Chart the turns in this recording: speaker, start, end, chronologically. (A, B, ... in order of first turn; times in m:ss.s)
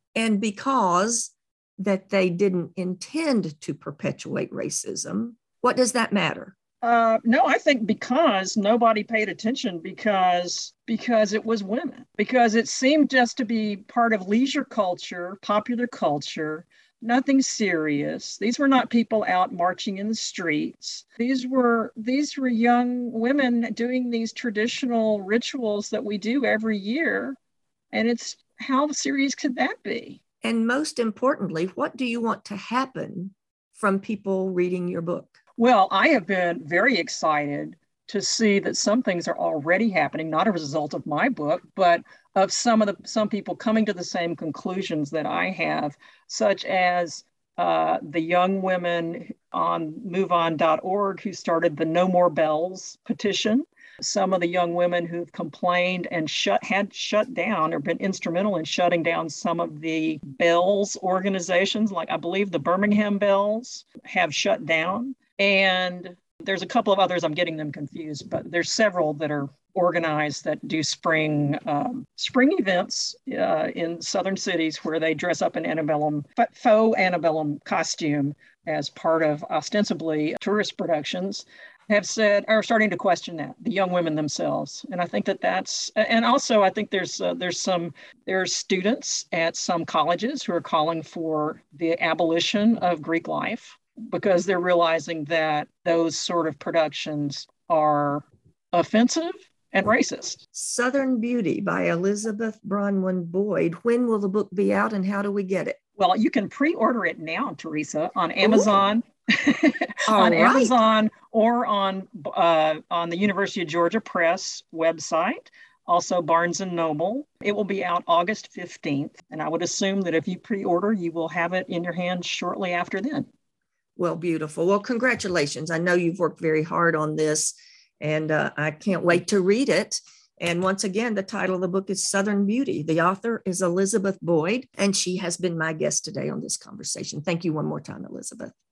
0:00.1-0:06.5 A
0:06.8-0:27.4 B
0:27.9-0:30.2 B
0:30.4-0:35.4 A
0:35.6-1:40.4 B
1:40.5-1:45.8 A
1:46.0-2:03.3 B
1:48.4-1:48.7 A
1:50.1-1:50.8 A
2:04.0-2:18.5 A